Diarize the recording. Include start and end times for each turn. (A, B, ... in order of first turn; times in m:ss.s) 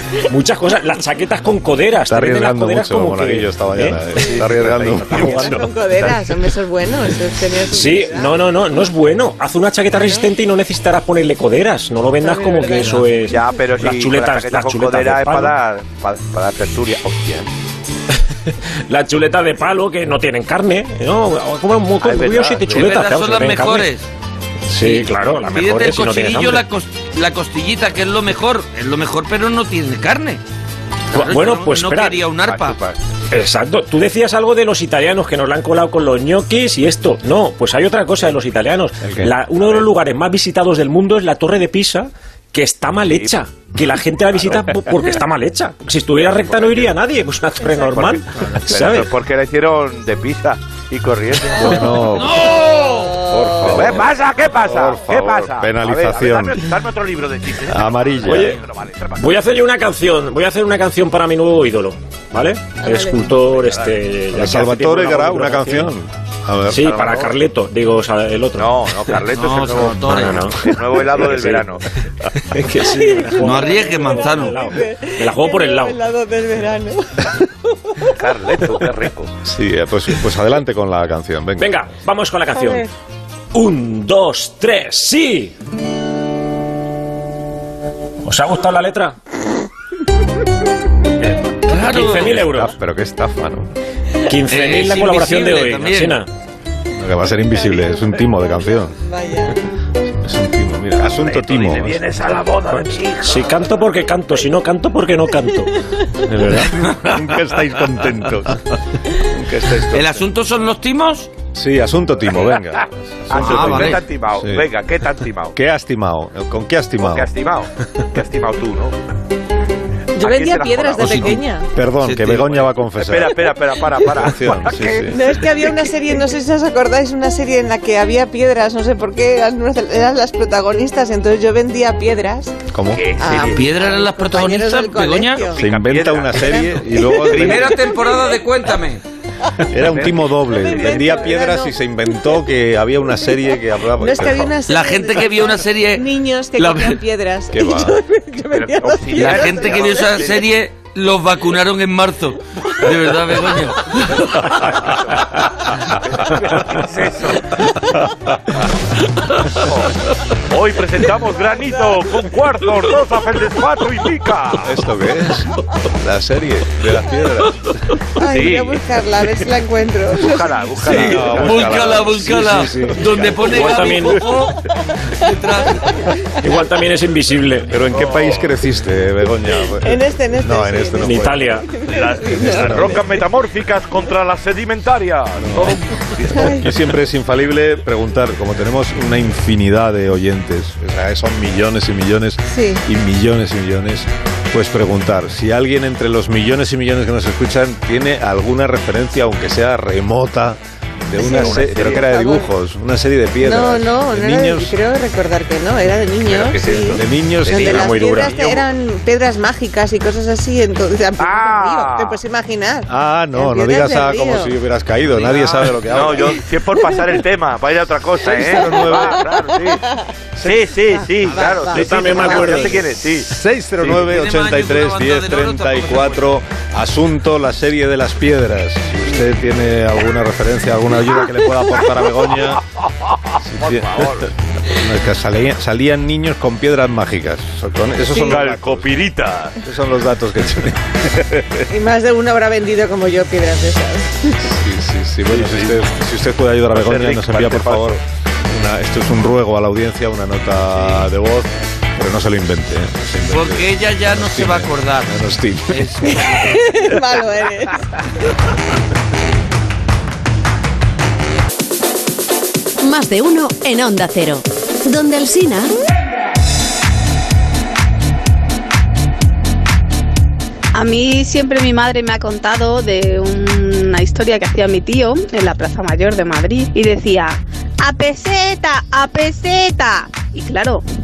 0:00.2-0:04.1 A
0:02.1-0:05.6 B
0:04.2-0:05.5 C
0:05.2-0:08.5 D
0:05.2-0:05.6 A
0:07.6-0:15.6 A
0:09.9-0:10.3 D
0:12.2-0:13.1 D
0:13.3-0:17.5 C
0:18.9-0:23.9 A
0:22.0-0:22.9 C
0:22.7-0:24.1 E
0:24.7-0:26.6 A
0:24.8-0:30.4 E
0:31.1-0:32.2 A
0:31.2-0:32.8 E
0:32.4-0:33.0 C
0:33.3-0:49.1 A
0:39.0-0:39.3 B
0:43.0-0:43.3 C
0:46.5-0:46.9 C
0:47.9-0:52.0 C
0:51.6-0:52.6 B
0:52.1-0:53.2 E
0:52.9-0:53.8 D
0:53.2-0:56.7 B
0:53.6-0:59.3 C
0:57.7-0:58.6 B
0:58.2-0:58.6 A
0:59.2-1:05.9 A
1:02.8-1:03.2 D
1:03.5-1:04.0 C
1:04.3-1:07.1 B
1:06.7-1:09.2 A
1:06.9-1:07.3 C
1:08.6-1:11.8 C
1:09.3-1:10.6 E
1:09.9-1:11.7 A
1:12.4-1:16.0 A
1:12.8-1:18.8 D
1:13.4-1:14.6 E
1:18.1-1:19.3 C
1:19.4-1:21.7 B
1:21.6-1:22.9 A
1:22.6-1:22.9 D
1:23.5-1:25.5 A
1:28.2-1:29.2 A
1:31.7-1:32.4 E
1:31.7-1:32.8 A
1:32.2-1:33.7 B
1:34.2-1:36.3 A
1:34.5-1:36.2 E
1:37.0-1:39.0 B
1:37.6-1:39.6 D
1:40.2-1:42.1 B
1:41.0-1:43.6 C
1:43.2-1:46.9 A
1:46.7-1:50.1 B
1:49.9-1:51.3 E
1:51.5-1:54.7 B
1:52.3-1:52.6 C
1:53.3-1:55.6 C
1:53.3-1:54.0 E
1:55.5-1:57.3 B
1:57.0-1:59.0 C
2:00.2-2:01.7 D
2:00.2-2:01.4 C
2:01.0-2:01.4 E
2:01.7-2:03.4 B
2:02.0-2:02.7 E
2:03.0-2:05.6 C
2:04.1-2:05.4 B
2:05.0-2:12.6 D
2:12.7-2:13.0 B
2:12.9-2:13.7 C
2:13.1-2:15.6 D
2:13.3-2:15.5 E
2:15.4-2:16.7 C
2:15.6-2:17.8 B
2:16.3-2:18.4 D
2:17.3-2:19.0 E
2:17.3-2:17.7 C
2:19.7-2:24.6 B
2:19.8-2:20.9 C
2:20.4-2:22.3 D
2:24.0-2:30.4 D
2:24.7-2:27.0 E
2:27.5-2:28.0 B
2:28.5-2:30.5 C
2:29.1-2:34.6 E
2:34.8-2:35.3 C
2:35.9-2:37.6 C
2:39.5-2:44.9 C
2:41.5-2:42.0 D
2:44.6-2:47.6 B
2:48.2-2:50.8 D
2:48.2-2:48.8 C
2:50.2-2:52.0 C
2:50.8-2:53.5 B
2:50.8-2:56.0 E
2:53.4-2:54.3 A
2:53.5-2:54.0 C
2:56.4-2:57.8 A
2:57.7-3:01.6 B
2:57.9-2:58.5 C
2:59.7-3:03.3 D
3:01.0-3:01.7 A
3:01.9-3:06.6 C
3:02.3-3:03.0 B
3:05.4-3:24.7 B
3:06.3-3:06.7 D
3:12.5-3:12.8 D
3:21.2-3:22.5 D
3:21.2-3:22.1 C
3:23.4-3:34.5 D
3:26.2-3:27.0 C
3:26.9-3:28.0 B
3:27.5-3:28.5 A
3:27.5-3:27.8 C
3:31.2-3:32.2 C
3:32.9-3:36.4 B
3:35.1-3:36.2 E
3:35.9-3:39.8 C
3:36.7-3:37.1 D
3:38.2-3:40.0 D
3:38.3-3:39.3 B
3:40.4-3:43.3 C
3:40.9-3:42.8 D
3:41.7-3:42.9 A
3:43.2-3:52.6 B
3:43.9-3:46.3 E
3:53.4-3:58.9 B
3:53.6-3:54.3 C
3:58.1-3:59.6 C
3:59.6-4:01.4 B
4:01.7-4:04.4 D
4:04.4-4:16.2 B
4:05.3-4:05.8 C
4:06.7-4:08.0 C
4:13.3-4:16.8 E
4:16.3-4:17.8 D
4:22.8-4:25.7 F
4:30.7-4:40.8 G